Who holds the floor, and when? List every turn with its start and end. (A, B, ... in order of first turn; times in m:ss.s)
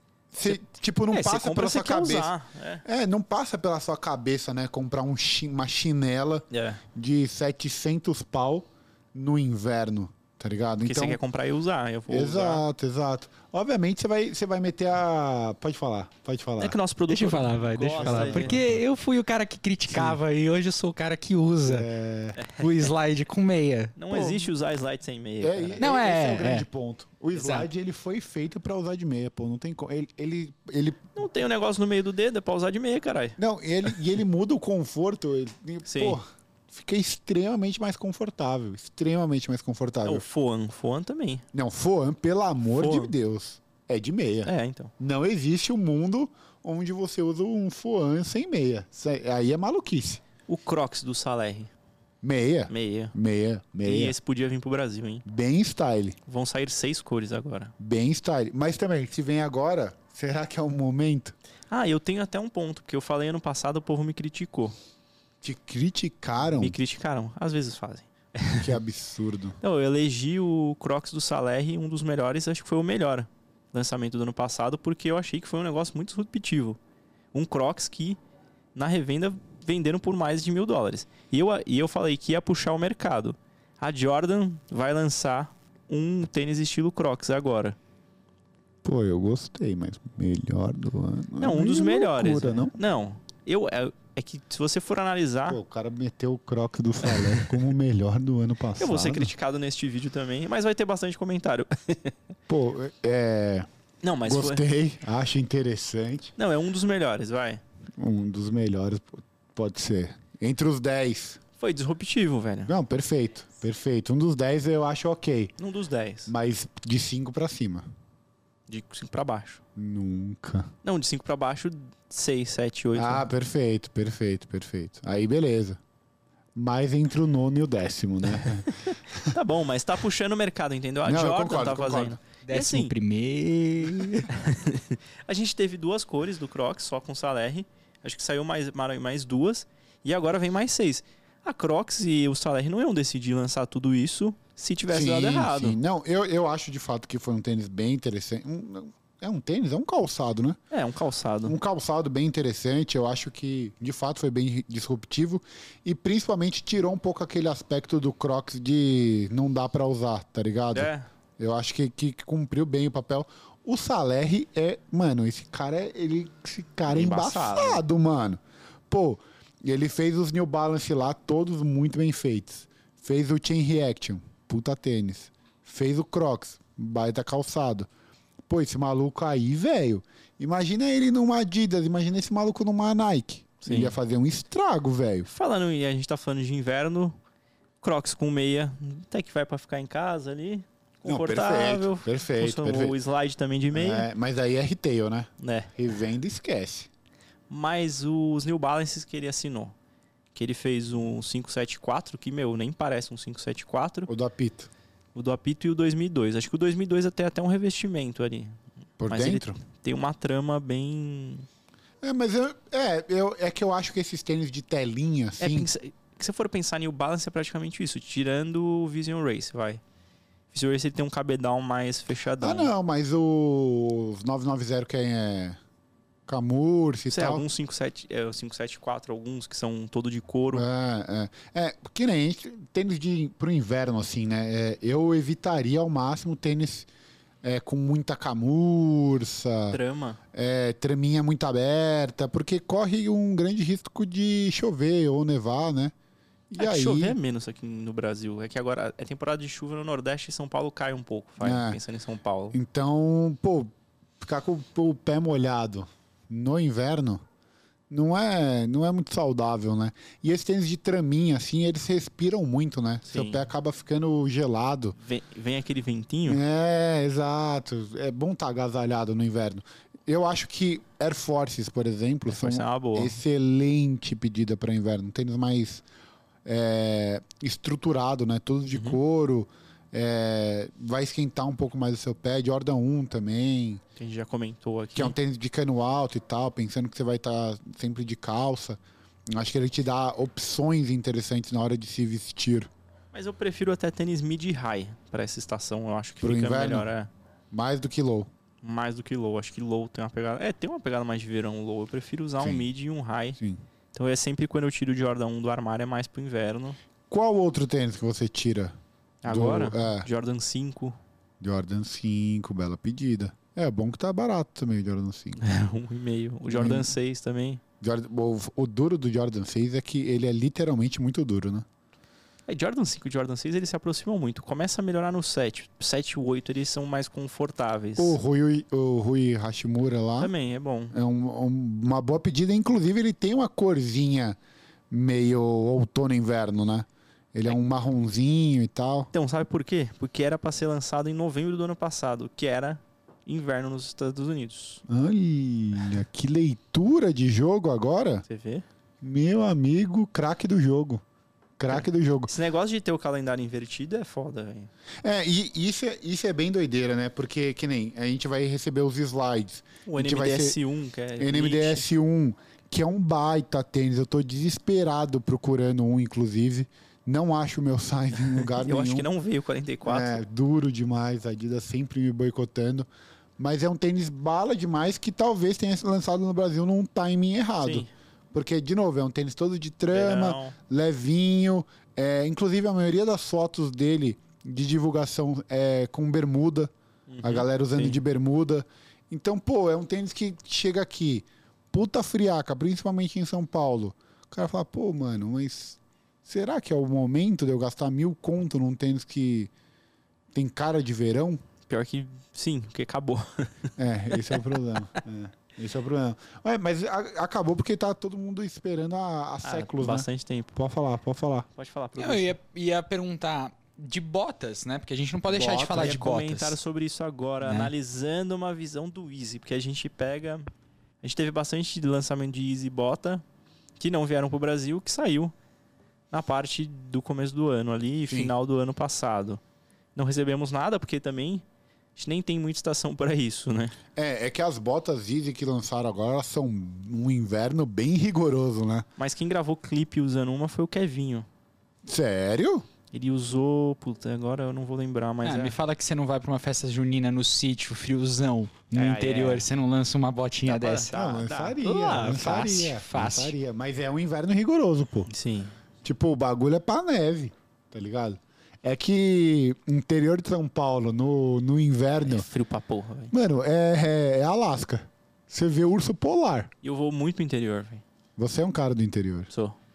0:00.3-0:11.2 A
0:00.4-0:02.8 B
0:06.5-0:06.8 B
0:10.8-0:12.6 B
0:12.1-0:16.8 A
0:16.6-0:18.6 B
0:17.1-0:21.9 C
0:18.0-0:18.8 A
0:19.9-0:20.2 A
0:21.6-0:22.4 A
0:22.4-0:22.7 B
0:22.6-0:24.4 C
0:24.0-0:25.9 B
0:25.4-0:31.0 A
0:25.8-0:26.7 C
0:27.3-0:27.7 C
0:31.2-0:33.4 B
0:33.4-0:40.2 A
0:35.9-0:36.2 B
0:40.0-0:41.4 B
0:41.5-0:50.2 A
0:42.7-0:43.1 B
0:44.5-0:44.9 B
0:50.5-0:51.7 B
0:52.2-0:54.2 A
0:52.7-0:53.2 B
0:53.8-0:55.2 B
0:55.2-0:56.2 A
0:56.3-0:57.7 B
0:57.8-1:01.4 A
1:01.7-1:04.8 B
1:05.4-1:06.8 A
1:06.5-1:08.7 B
1:08.5-1:09.6 A
1:09.6-1:16.8 B
1:17.3-1:18.2 B
1:18.8-1:27.8 B
1:28.8-1:32.8 A
1:31.4-1:35.6 B
1:35.5-1:39.3 A
1:37.1-1:37.6 B
1:38.8-1:42.2 B
1:42.5-1:43.7 A
1:44.0-1:44.6 B
1:44.2-1:46.3 A
1:46.4-1:47.6 B
1:48.0-1:51.4 A
1:51.6-1:52.7 B
1:52.7-1:55.6 A
1:55.6-1:56.3 B
1:56.3-1:57.9 A
1:58.7-1:59.6 B
1:59.8-2:00.7 A
2:00.8-2:03.2 B
2:03.0-2:05.8 A
2:06.6-2:09.3 A
2:08.8-2:12.9 B
2:11.0-2:12.2 A
2:12.4-2:14.3 C
2:14.3-2:25.8 B
2:24.9-2:30.6 A
2:30.7-2:31.6 B
2:31.4-2:57.9 A
2:40.7-2:41.1 B
2:46.9-2:47.8 B
2:58.5-3:05.3 A
3:03.6-3:04.0 B
3:05.3-3:07.2 B
3:07.8-3:14.1 B
3:11.1-3:13.0 A
3:13.7-3:16.9 A
3:15.4-3:15.7 B
3:17.5-3:19.7 B
3:20.3-3:24.1 B
3:24.1-3:24.7 A
3:25.2-3:31.5 B
3:29.0-3:29.6 A
3:32.0-3:35.7 A
3:35.4-3:39.8 B
3:40.5-3:42.7 B
3:42.4-3:45.6 A
3:46.3-3:47.4 A
3:47.1-3:50.6 B
3:50.5-3:56.9 A
3:57.4-3:59.8 A
3:59.7-4:00.2 B
4:00.3-4:05.9 A
4:06.5-4:07.2 A
4:06.6-4:12.6 B
4:11.4-4:11.8 A
4:12.5-4:17.2 A
4:17.9-4:25.0 A
4:23.1-4:23.4 B
4:25.0-4:26.4 B
4:26.3-4:35.8 A
4:32.3-4:33.2 B
4:36.4-4:43.8 A
4:38.7-4:39.0 B
4:44.0-4:45.2 B
4:45.0-4:52.7 A
4:53.1-4:57.1 B
4:56.2-4:56.9 A
4:57.5-4:58.3 A
4:58.6-5:03.4 B
5:02.4-5:02.7 A
5:03.9-5:06.8 B
5:07.1-5:08.8 A
5:09.2-5:11.0 B
5:09.3-5:10.1 A
5:11.4-5:15.4 A
5:15.4-5:17.6 B
5:16.5-5:16.9 A
5:17.8-5:21.7 A
5:22.5-5:28.2 B
5:28.0-5:30.3 A
5:30.2-5:31.0 B
5:30.9-5:34.4 A
5:34.9-5:39.1 A
5:39.1-5:44.8 B
5:44.9-5:48.2 A
5:48.3-5:48.6 B
5:49.0-5:51.0 A
5:51.6-5:52.3 A
5:51.7-5:54.7 B
5:55.0-6:00.6 A
5:59.9-6:01.9 B
6:01.2-6:09.1 A
6:08.4-6:10.2 B
6:09.8-6:26.7 A
6:17.6-6:17.9 B
6:19.9-6:20.6 B
6:27.1-6:28.0 B
6:27.2-6:39.5 A
6:40.3-6:41.4 A
6:41.7-6:44.4 B
6:43.8-6:51.5 A
6:49.4-6:50.5 B
6:51.6-6:52.4 B
6:52.0-6:56.6 C
6:55.3-6:56.0 A
6:55.4-7:00.5 B
6:57.4-6:57.7 C
7:01.0-7:03.2 B
7:03.8-7:05.3 B
7:06.1-7:09.4 B
7:08.1-7:08.4 A
7:10.0-7:11.4 B
7:12.0-7:13.8 B
7:14.0-7:18.9 A
7:19.0-7:21.3 B
7:21.8-7:22.7 A
7:22.9-7:25.6 B
7:25.2-7:31.0 C
7:28.7-7:29.5 B
7:30.5-7:32.3 B
7:30.9-7:35.1 A
7:31.6-7:33.4 C
7:35.1-7:35.5 B
7:35.8-7:42.3 A
7:42.0-7:43.1 B
7:43.1-7:46.5 A
7:46.6-7:47.8 B
7:48.2-7:49.3 A
7:49.3-7:49.6 B